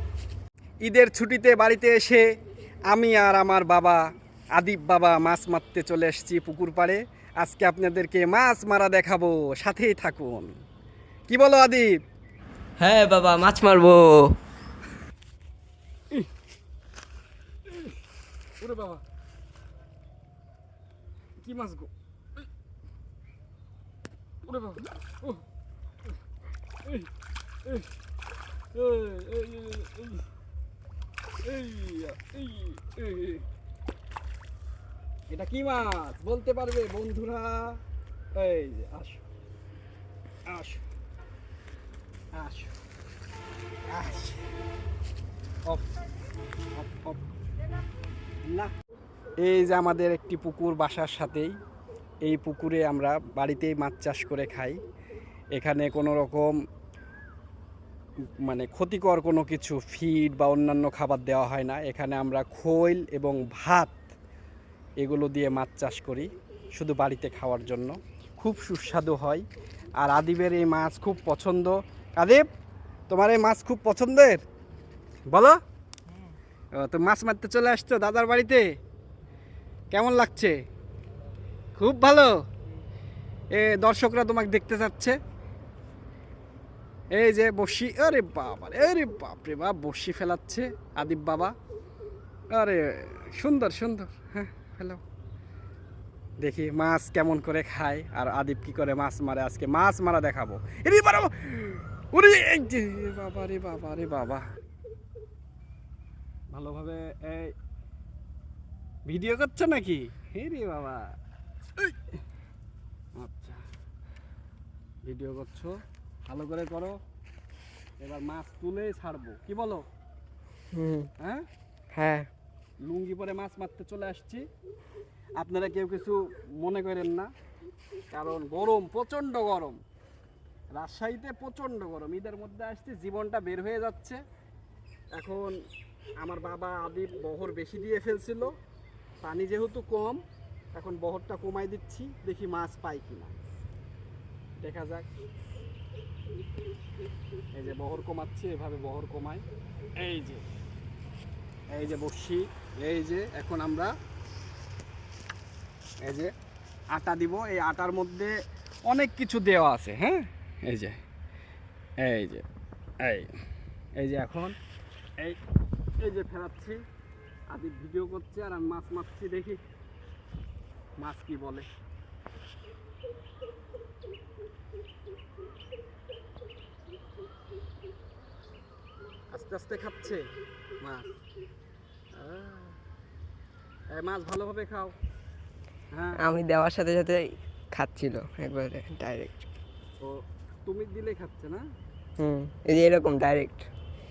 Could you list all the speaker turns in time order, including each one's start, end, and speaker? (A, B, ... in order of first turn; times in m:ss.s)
0:00.8-0:02.3 A
0:02.9-0:04.0 A
0:04.6-0:10.5 A
0:11.3-0:11.9 A
0:12.8-0:14.4 B
0:17.7-0:18.0 A
0:18.6-0:19.0 A
0:21.4-0:21.9 A
0:24.4-0:25.4 A
0:28.7-0:30.2 A
0:31.4-0:33.5 A
0:35.3-0:37.8 A
0:38.4-0:39.3 A
0:40.5-0:40.8 A
0:42.4-0:42.8 A
0:43.9-0:44.5 A
0:46.8-0:47.2 A
0:49.4-0:51.5 A
0:52.2-0:54.8 A
0:55.5-0:56.5 A
0:58.4-1:04.0 A
1:05.0-1:09.4 A
1:10.0-1:12.5 A
1:13.1-1:14.4 A
1:15.3-1:15.6 A
1:16.8-1:18.7 A
1:19.9-1:20.6 A
1:21.8-1:22.4 A
1:23.5-1:25.2 A
1:27.1-1:31.6 A
1:32.5-1:35.0 A
1:36.4-1:44.5 A
1:46.5-1:47.5 A
1:49.1-1:51.1 A
1:53.2-1:53.6 A
1:55.0-1:57.0 A
1:58.0-1:59.8 A
2:00.7-2:01.1 B
2:01.2-2:01.5 A
2:01.9-2:02.3 B
2:02.8-2:04.5 A
2:05.4-2:07.3 A
2:08.1-2:09.8 A
2:10.7-2:14.2 A
2:15.1-2:15.6 A
2:16.2-2:18.6 A
2:19.2-2:20.2 A
2:20.7-2:23.3 A
2:24.6-2:25.1 A
2:27.5-2:29.4 A
2:30.0-2:30.4 A
2:31.7-2:33.9 A
2:36.0-2:36.3 A
2:36.9-2:38.3 A
2:38.9-2:41.0 A
2:42.0-2:42.4 A
2:43.0-2:43.3 A
2:44.0-2:44.6 A
2:46.0-2:46.8 A
2:47.5-2:49.6 A
2:51.0-2:51.7 A
2:59.3-3:00.3 A
3:00.8-3:01.1 A
3:02.1-3:02.8 A
3:03.9-3:05.0 A
3:05.9-3:06.2 A
3:06.2-3:09.5 B
3:10.0-3:11.6 A
3:12.2-3:13.7 B